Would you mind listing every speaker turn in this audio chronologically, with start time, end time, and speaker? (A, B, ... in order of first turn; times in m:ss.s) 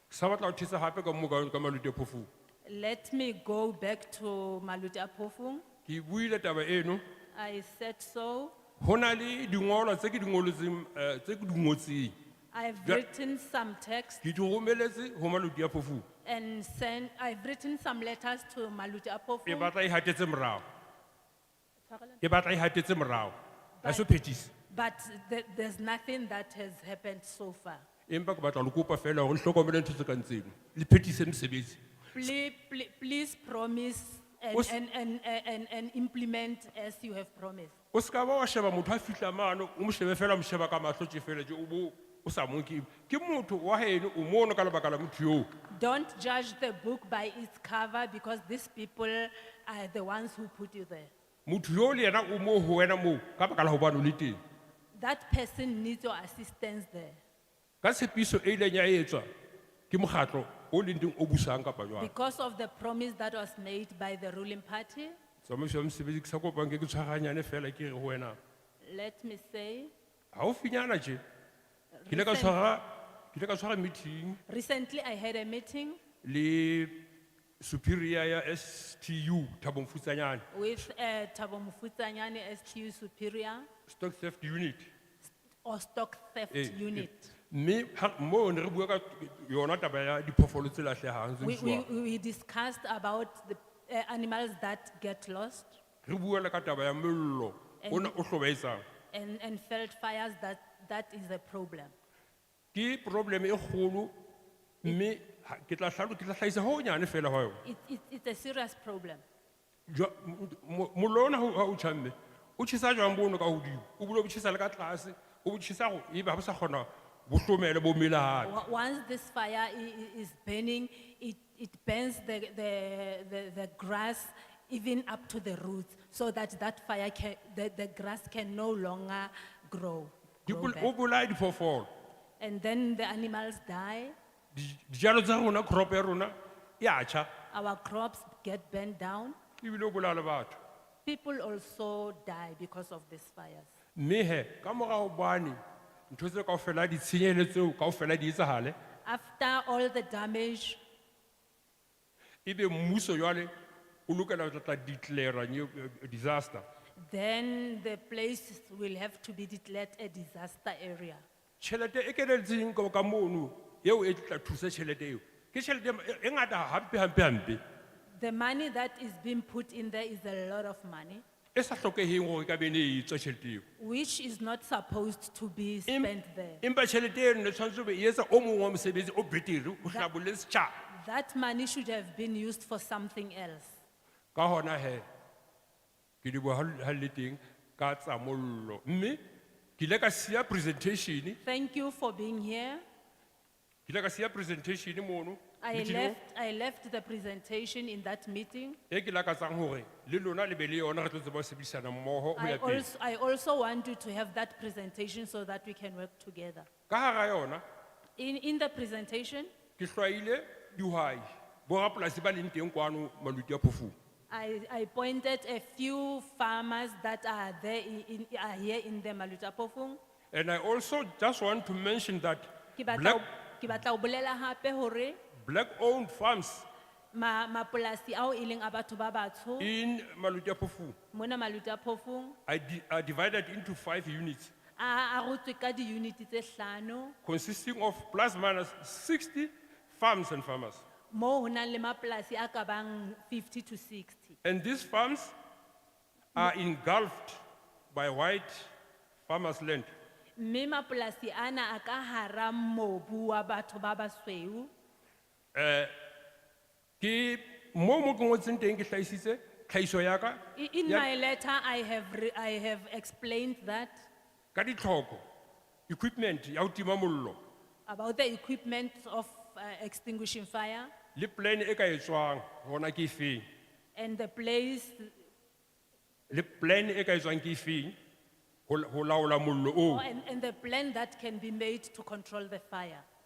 0:00.1-0:02.3 A
0:02.6-0:05.6 B
0:05.9-0:07.0 A
0:07.3-0:08.6 B
0:08.8-0:12.1 A
0:12.5-0:14.2 B
0:14.2-0:16.0 A
0:16.2-0:19.7 B
0:19.5-0:20.6 A
0:21.9-0:22.2 B
0:22.2-0:24.5 A
0:23.8-0:24.1 B
0:24.7-0:27.9 B
0:28.1-0:31.8 A
0:32.1-0:37.8 B
0:37.9-0:45.5 A
0:45.7-0:51.1 B
0:51.5-0:54.4 A
0:54.9-0:57.2 B
0:57.8-0:59.3 A
0:59.9-1:02.1 A
1:02.0-1:05.2 B
1:05.4-1:08.4 A
1:08.8-1:09.9 B
1:10.3-1:11.2 A
1:12.0-1:12.6 B
1:12.1-1:14.4 A
1:14.5-1:16.0 B
1:16.2-1:17.0 A
1:17.6-1:20.5 A
1:20.5-1:23.7 B
1:23.9-1:24.9 A
1:25.6-1:27.3 B
1:26.5-1:31.8 A
1:31.4-1:35.8 B
1:36.0-1:38.8 A
1:37.8-1:38.1 B
1:39.1-1:41.9 B
1:42.7-1:44.1 A
1:44.8-1:47.6 A
1:47.6-1:49.2 B
1:49.9-1:58.5 A
1:58.4-2:10.9 B
2:10.5-2:11.9 A
2:12.4-2:14.1 B
2:14.5-2:17.3 A
2:17.5-2:19.4 B
2:19.6-2:20.6 A
2:21.0-2:23.7 B
2:24.0-2:25.6 A
2:26.1-2:28.8 A
2:29.0-2:30.8 B
2:32.5-2:33.5 A
2:34.1-2:36.6 A
2:37.0-2:41.2 B
2:41.6-2:47.6 A
2:48.2-2:51.2 B
2:51.6-2:53.6 A
2:53.8-2:56.6 B
2:55.9-3:00.8 A
2:59.8-3:00.1 B
3:00.9-3:03.8 B
3:04.4-3:05.0 A
3:06.2-3:09.2 A
3:09.8-3:11.4 A
3:11.4-3:12.8 B
3:13.9-3:16.2 A
3:15.6-3:18.8 B
3:18.9-3:22.9 A
3:22.4-3:26.7 B
3:26.9-3:27.6 A
3:28.2-3:29.5 B
3:29.8-3:34.0 A
3:34.3-3:40.0 B
3:40.3-3:43.2 A
3:42.8-3:45.2 B
3:45.4-3:46.7 A
3:47.1-3:49.7 B
3:49.6-3:51.0 A
3:51.1-3:52.4 B
3:52.5-3:54.5 A
3:54.8-3:57.2 B
3:57.2-4:00.8 A
4:01.1-4:04.4 B
4:04.4-4:05.3 A
4:06.4-4:07.4 A
4:07.9-4:08.7 A
4:09.3-4:09.9 A
4:10.4-4:14.7 B
4:15.6-4:15.9 A
4:17.0-4:21.1 A
4:20.6-4:24.1 B
4:24.5-4:25.2 A
4:25.9-4:27.4 A
4:27.9-4:30.9 B
4:31.2-4:33.4 A
4:34.0-4:35.2 B
4:36.3-4:38.0 A
4:38.7-4:40.0 A
4:39.9-4:43.0 B